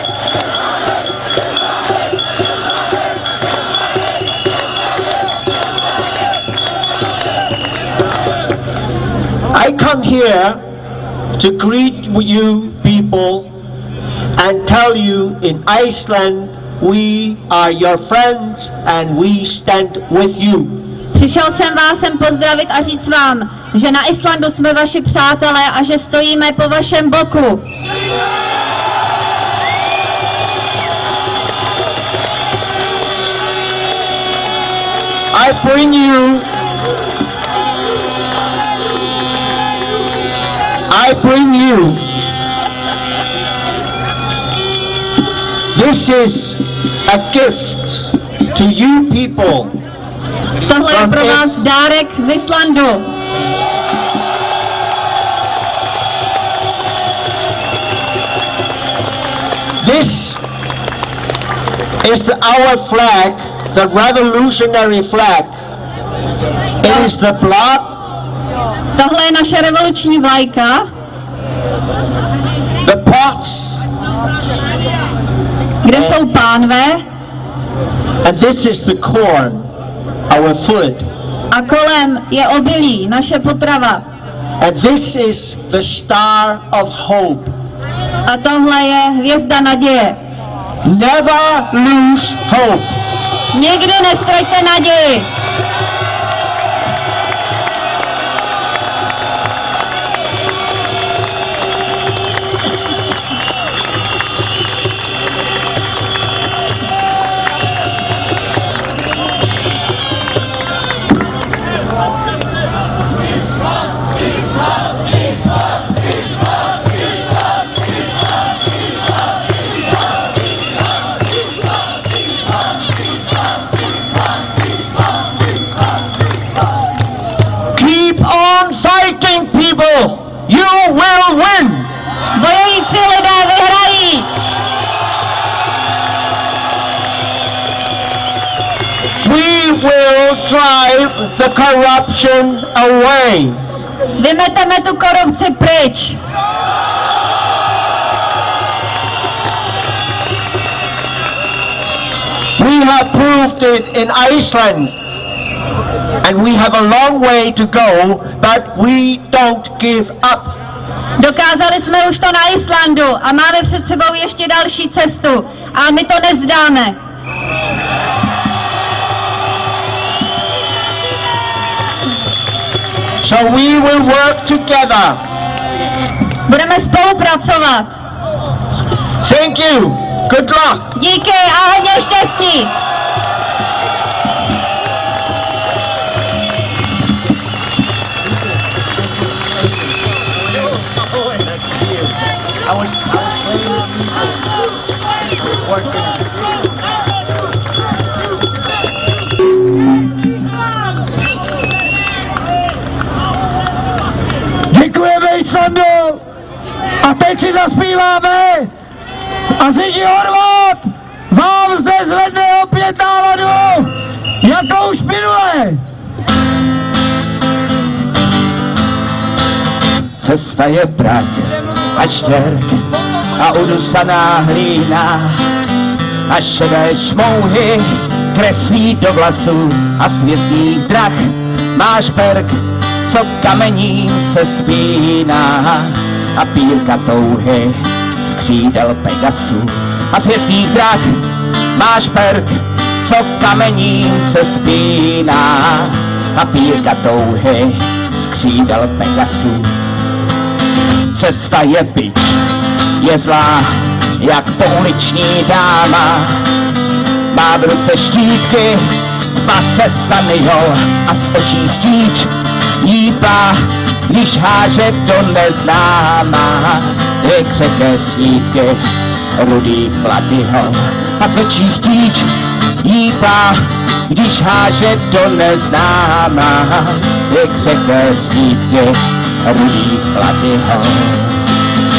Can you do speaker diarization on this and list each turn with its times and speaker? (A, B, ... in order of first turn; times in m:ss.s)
0:09.5-0:10.6 A
0:11.4-0:13.5 A
0:14.4-0:20.9 A
0:21.1-0:27.6 B
0:35.3-0:36.5 A
0:40.9-0:42.1 A
0:45.7-0:49.8 A
0:50.7-0:53.0 B
0:50.9-0:51.6 A
0:59.8-1:00.4 A
1:02.0-1:05.6 A
1:06.8-1:08.0 A
1:09.0-1:10.9 B
1:12.8-1:13.8 A
1:15.8-1:17.0 B
1:18.2-1:19.7 A
1:20.3-1:21.1 A
1:21.5-1:24.0 B
1:24.6-1:27.5 A
1:28.2-1:30.2 B
1:30.8-1:33.0 A
1:33.5-1:35.3 B
2:07.7-2:11.9 A
2:12.3-2:14.3 B
2:19.2-2:23.6 A
2:24.2-2:26.2 B
2:32.6-2:35.0 A
2:36.2-2:40.6 A
2:41.2-2:47.0 B
2:53.2-2:55.2 A
2:56.5-2:58.0 B
2:59.2-3:00.9 A
3:00.9-3:02.7 B
3:12.6-3:14.0 A
3:15.6-3:16.2 A
3:24.7-3:26.2 C
3:27.0-3:28.7 C
3:29.6-3:35.8 C
3:40.2-3:42.8 D
3:43.4-3:45.4 D
3:46.3-4:01.2 D
4:01.7-4:09.7 D
4:11.1-4:12.4 D
4:13.0-4:16.4 D
4:17.3-4:22.3 D
4:22.8-4:28.8 D
4:29.4-4:32.3 D
4:32.8-4:41.4 D